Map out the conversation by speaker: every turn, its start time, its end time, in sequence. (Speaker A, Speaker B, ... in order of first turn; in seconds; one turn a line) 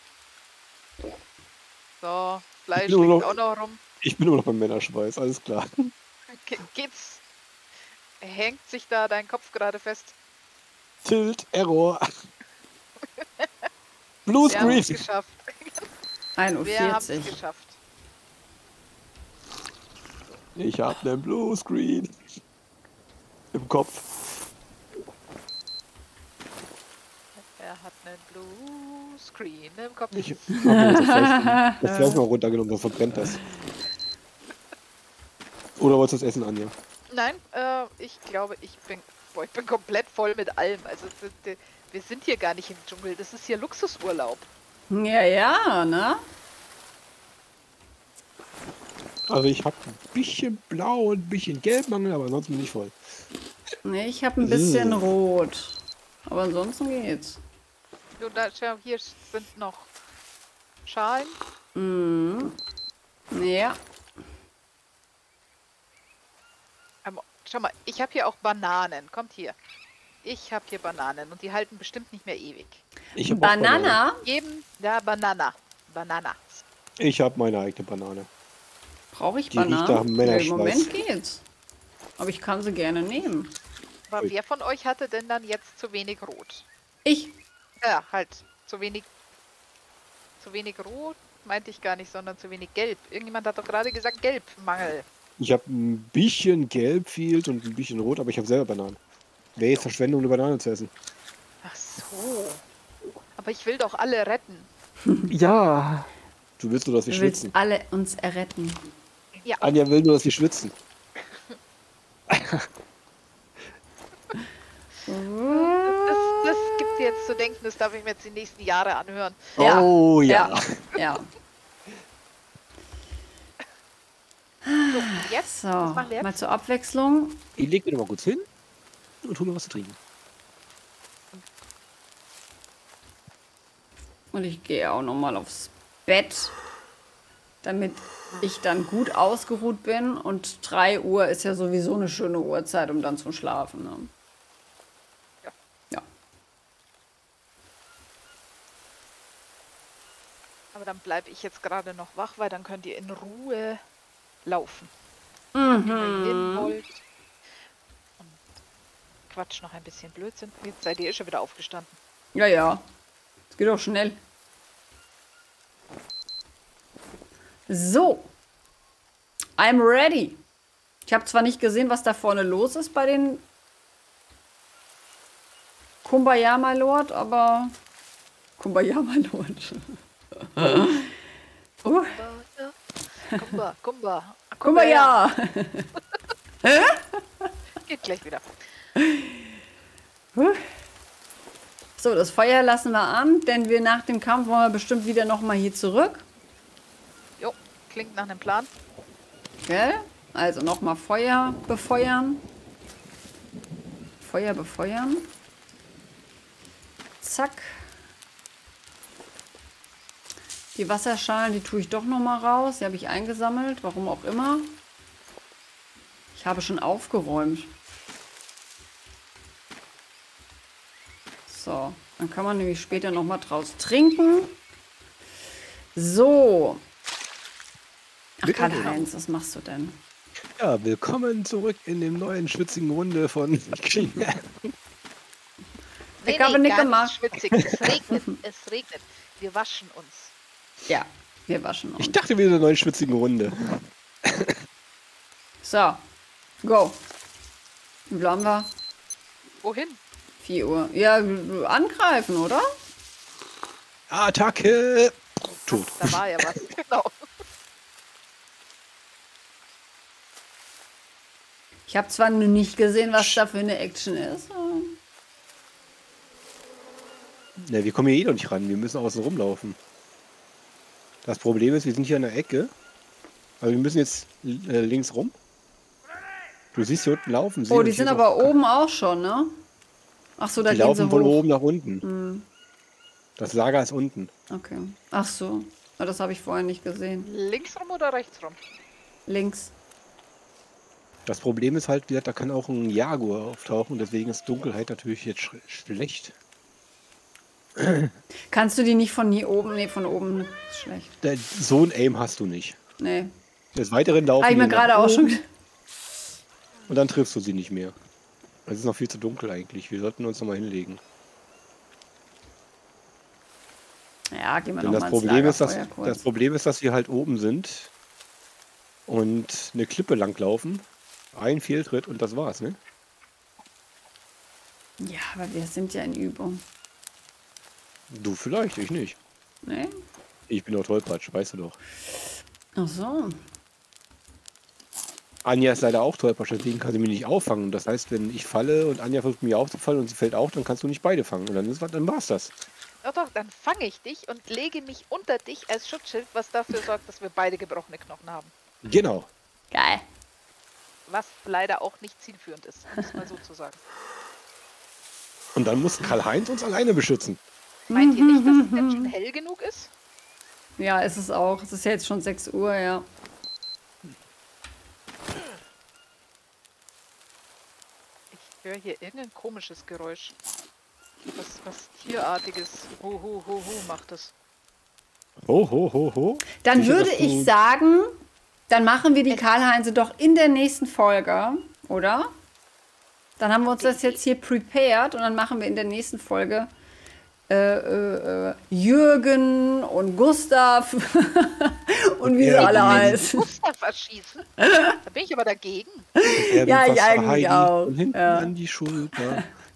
Speaker A: 2.0-3.8
Speaker B: 2.8-3.4
Speaker B: 4.0-5.9
Speaker A: 6.3-7.2
Speaker A: 8.2-10.2
Speaker B: 11.0-12.0
Speaker A: 13.0-13.7
Speaker B: 14.3-15.0
Speaker A: 14.5-15.9
Speaker C: 16.4-17.4
Speaker A: 16.6-17.8
Speaker B: 20.6-22.1
Speaker B: 23.5-24.1
Speaker A: 27.6-30.5
Speaker B: 30.1-33.4
Speaker C: 30.5-32.2
Speaker B: 35.8-36.7
Speaker A: 37.1-44.5
Speaker C: 44.9-46.2
Speaker B: 49.3-53.0
Speaker C: 53.9-57.4
Speaker B: 54.4-55.1
Speaker A: 58.2-59.9
Speaker A: 60.9-61.4
Speaker C: 61.8-62.6
Speaker C: 63.3-63.8
Speaker A: 67.0-69.5
Speaker A: 70.2-72.8
Speaker B: 73.2-74.0
Speaker C: 73.3-74.2
Speaker A: 74.2-76.6
Speaker B: 77.0-78.3
Speaker C: 79.1-81.4
Speaker B: 79.5-80.9
Speaker C: 82.2-83.5
Speaker A: 84.1-86.7
Speaker C: 87.0-87.3
Speaker A: 87.8-89.1
Speaker A: 90.4-95.0
Speaker B: 95.4-99.0
Speaker B: 99.6-100.9
Speaker A: 101.6-102.6
Speaker A: 103.4-104.7
Speaker C: 105.1-105.3
Speaker B: 105.3-107.5
Speaker C: 107.1-108.8
Speaker B: 109.6-110.7
Speaker B: 112.3-112.7
Speaker C: 115.1-116.0
Speaker A: 115.5-119.6
Speaker B: 119.6-120.8
Speaker C: 119.6-121.3
Speaker C: 124.7-127.4
Speaker A: 124.9-126.4
Speaker B: 127.6-128.5
Speaker B: 129.2-130.0
Speaker C: 134.3-136.6
Speaker C: 137.6-144.1
Speaker A: 150.7-153.8
Speaker A: 154.4-154.9
Speaker C: 155.6-156.7
Speaker A: 155.6-157.0
Speaker A: 159.3-162.0
Speaker C: 162.3-162.8
Speaker C: 163.5-164.2
Speaker C: 167.7-168.3
Speaker C: 169.6-170.4
Speaker C: 171.1-173.4
Speaker C: 176.0-177.8
Speaker C: 178.6-181.1
Speaker C: 181.8-182.2
Speaker A: 181.8-182.8
Speaker A: 183.3-185.2
Speaker C: 184.6-185.9
Speaker C: 186.6-187.5
Speaker A: 187.8-188.6
Speaker C: 190.4-190.7
Speaker C: 192.0-196.3
Speaker A: 197.4-198.7
Speaker C: 199.7-202.4
Speaker C: 204.2-205.3
Speaker C: 207.2-207.9
Speaker C: 210.8-214.8
Speaker C: 216.3-217.7
Speaker C: 221.5-224.6
Speaker A: 222.9-223.2
Speaker C: 225.9-226.8
Speaker C: 228.4-230.0
Speaker B: 228.4-229.1
Speaker B: 230.6-234.7
Speaker A: 236.2-240.3
Speaker C: 236.2-237.2
Speaker C: 240.9-242.2
Speaker B: 242.0-244.6
Speaker C: 245.6-246.0
Speaker C: 246.6-247.0
Speaker C: 248.1-248.7
Speaker A: 249.6-250.0
Speaker C: 250.4-252.7
Speaker B: 254.1-256.6
Speaker A: 255.7-257.1
Speaker C: 261.9-265.0
Speaker B: 267.6-269.8
Speaker B: 271.2-272.7
Speaker B: 273.6-275.4
Speaker B: 276.7-278.6
Speaker C: 277.7-279.5
Speaker C: 280.4-281.4
Speaker B: 280.7-282.1
Speaker C: 282.0-282.5
Speaker B: 283.4-284.3
Speaker C: 284.5-287.3
Speaker A: 287.2-288.6
Speaker C: 289.3-289.7
Speaker B: 291.3-296.4
Speaker B: 297.8-298.1
Speaker C: 298.5-301.1
Speaker B: 301.2-302.8
Speaker C: 303.0-303.3
Speaker B: 303.7-305.4
Speaker C: 304.4-305.4
Speaker B: 306.9-307.9
Speaker B: 308.7-311.0
Speaker C: 314.3-316.2
Speaker B: 314.8-317.9
Speaker B: 319.1-322.8
Speaker C: 325.0-326.6
Speaker B: 328.1-329.2
Speaker C: 329.6-329.9
Speaker B: 330.5-331.8
Speaker C: 332.8-333.4
Speaker B: 335.4-342.6
Speaker A: 343.0-348.5
Speaker B: 348.8-349.3
Speaker C: 349.7-350.0
Speaker A: 351.1-353.8
Speaker B: 355.6-357.4
Speaker C: 357.9-359.1
Speaker A: 357.9-359.9
Speaker C: 360.8-363.1
Speaker A: 368.3-370.4
Speaker A: 371.4-374.3
Speaker B: 375.4-377.5
Speaker C: 376.6-378.1
Speaker C: 378.7-382.3
Speaker C: 383.4-386.7
Speaker A: 383.8-384.2
Speaker C: 387.5-393.5
Speaker B: 392.2-393.3
Speaker A: 392.6-394.5
Speaker C: 394.6-395.0
Speaker A: 395.0-396.1
Speaker C: 396.2-398.5
Speaker B: 396.3-399.4
Speaker C: 399.1-399.4